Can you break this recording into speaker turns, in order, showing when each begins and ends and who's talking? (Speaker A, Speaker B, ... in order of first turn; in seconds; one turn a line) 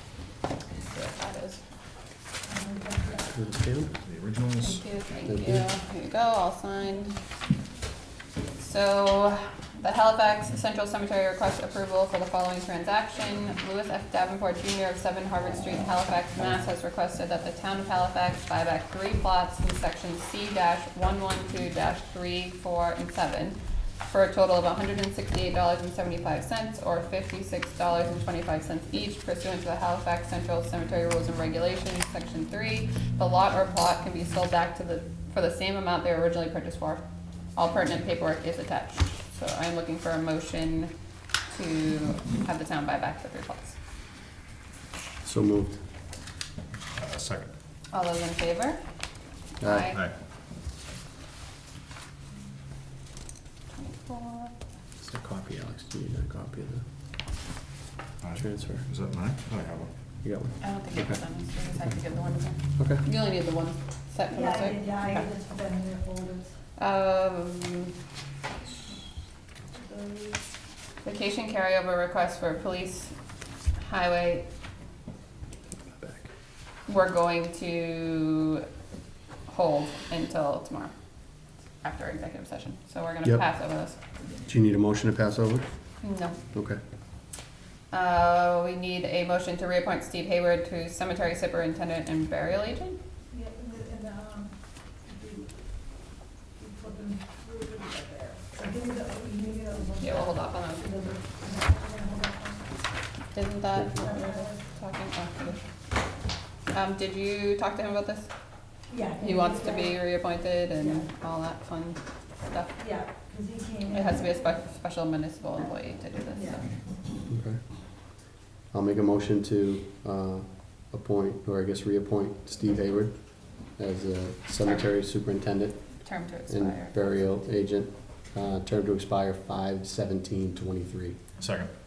Speaker A: 0.8-1.6
Speaker B: 2.5-3.3
Speaker C: 3.3-3.9
Speaker D: 3.9-4.9
Speaker A: 4.6-7.2
Speaker C: 5.3-5.7
Speaker A: 8.6-37.0
Speaker A: 37.6-40.9
Speaker A: 41.5-43.8
Speaker C: 45.2-45.8
Speaker D: 47.0-47.5
Speaker A: 47.9-48.8
Speaker A: 49.6-50.0
Speaker C: 49.6-49.9
Speaker A: 53.7-54.5
Speaker C: 55.0-56.8
Speaker D: 58.2-59.9
Speaker C: 58.4-58.9
Speaker C: 60.2-61.2
Speaker A: 60.6-65.3
Speaker C: 62.8-63.0
Speaker B: 64.3-66.6
Speaker A: 66.8-68.0
Speaker B: 69.7-70.5
Speaker A: 71.0-73.2
Speaker A: 73.8-74.5
Speaker C: 75.8-76.3
Speaker A: 76.9-78.7
Speaker A: 79.5-80.9
Speaker A: 81.8-84.0
Speaker C: 84.5-85.7
Speaker A: 86.0-86.4
Speaker C: 86.5-86.8
Speaker A: 87.9-93.0
Speaker B: 93.3-96.0
Speaker B: 96.5-102.7
Speaker A: 100.0-100.9
Speaker A: 103.3-105.7
Speaker C: 103.7-104.0
Speaker B: 104.0-104.8
Speaker A: 106.7-108.3
Speaker B: 108.9-111.1
Speaker A: 109.2-112.8
Speaker B: 112.8-114.6
Speaker A: 113.9-116.7
Speaker B: 116.3-116.7
Speaker C: 117.3-117.6
Speaker C: 118.7-131.2
Speaker A: 126.0-127.0
Speaker D: 131.4-131.7